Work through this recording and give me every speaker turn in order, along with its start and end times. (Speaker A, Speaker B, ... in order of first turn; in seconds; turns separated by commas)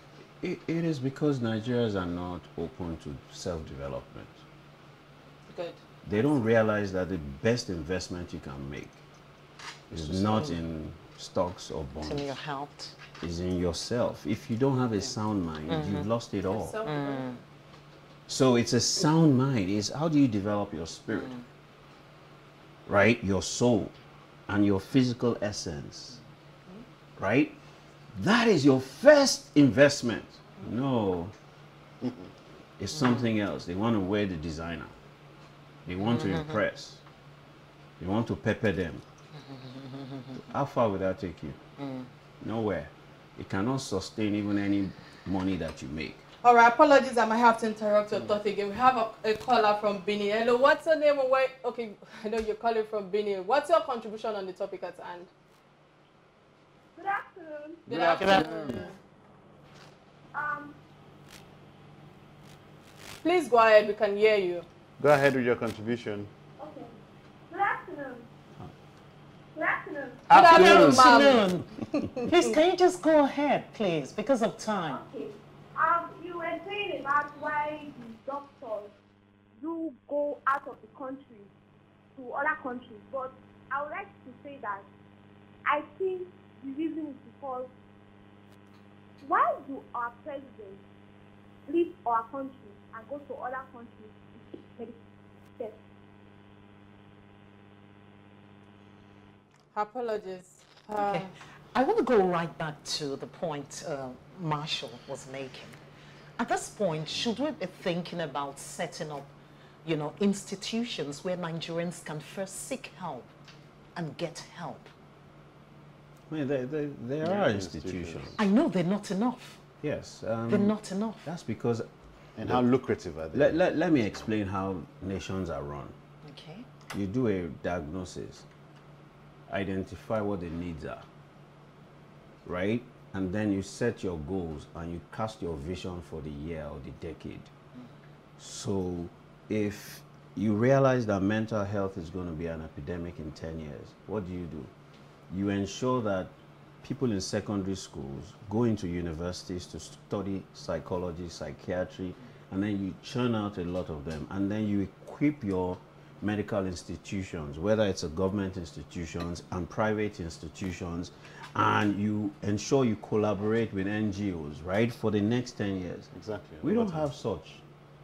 Speaker A: 0.4-4.4, Speaker B: 5.5-5.8, Speaker A: 6.0-9.0, Speaker A: 9.9-12.3, Speaker C: 9.9-10.4, Speaker D: 10.3-10.6, Speaker D: 12.0-12.9, Speaker A: 13.2-16.8, Speaker D: 15.7-16.1, Speaker B: 16.5-17.4, Speaker D: 16.8-17.4, Speaker A: 18.3-21.3, Speaker D: 21.1-21.4, Speaker A: 22.9-23.9, Speaker A: 24.5-26.2, Speaker A: 27.2-27.5, Speaker A: 28.1-31.3, Speaker C: 32.0-32.3, Speaker A: 32.8-34.9, Speaker D: 32.9-33.3, Speaker A: 35.9-37.0, Speaker D: 36.0-36.6, Speaker A: 38.0-39.0, Speaker D: 39.4-40.4, Speaker A: 40.5-41.6, Speaker D: 41.8-42.1, Speaker A: 42.4-46.2, Speaker B: 46.4-55.3, Speaker E: 57.0-58.5, Speaker B: 57.9-58.9, Speaker C: 57.9-58.9, Speaker D: 58.2-58.8, Speaker E: 60.3-60.8, Speaker B: 63.2-64.7, Speaker C: 65.0-66.3, Speaker E: 66.6-66.9, Speaker E: 67.5-68.3, Speaker E: 69.5-70.6, Speaker C: 70.3-71.3, Speaker B: 70.3-72.5, Speaker D: 70.5-75.0, Speaker E: 74.9-78.9, Speaker E: 79.6-81.5, Speaker E: 82.2-84.8, Speaker E: 85.7-87.7, Speaker E: 89.2-90.8, Speaker E: 91.7-95.0, Speaker B: 99.7-101.3, Speaker D: 101.0-105.8, Speaker D: 106.4-109.3, Speaker D: 109.8-113.3, Speaker D: 114.0-114.9, Speaker A: 116.3-118.3, Speaker C: 117.2-118.4, Speaker D: 118.4-119.6, Speaker A: 119.8-121.8, Speaker D: 120.5-121.2, Speaker C: 122.3-123.6, Speaker A: 123.3-125.9, Speaker D: 126.2-126.7, Speaker A: 126.9-128.4, Speaker A: 129.5-131.0, Speaker A: 132.4-137.5, Speaker A: 138.4-144.7, Speaker A: 145.3-146.3, Speaker A: 146.8-166.1, Speaker C: 166.1-167.1, Speaker A: 166.6-167.6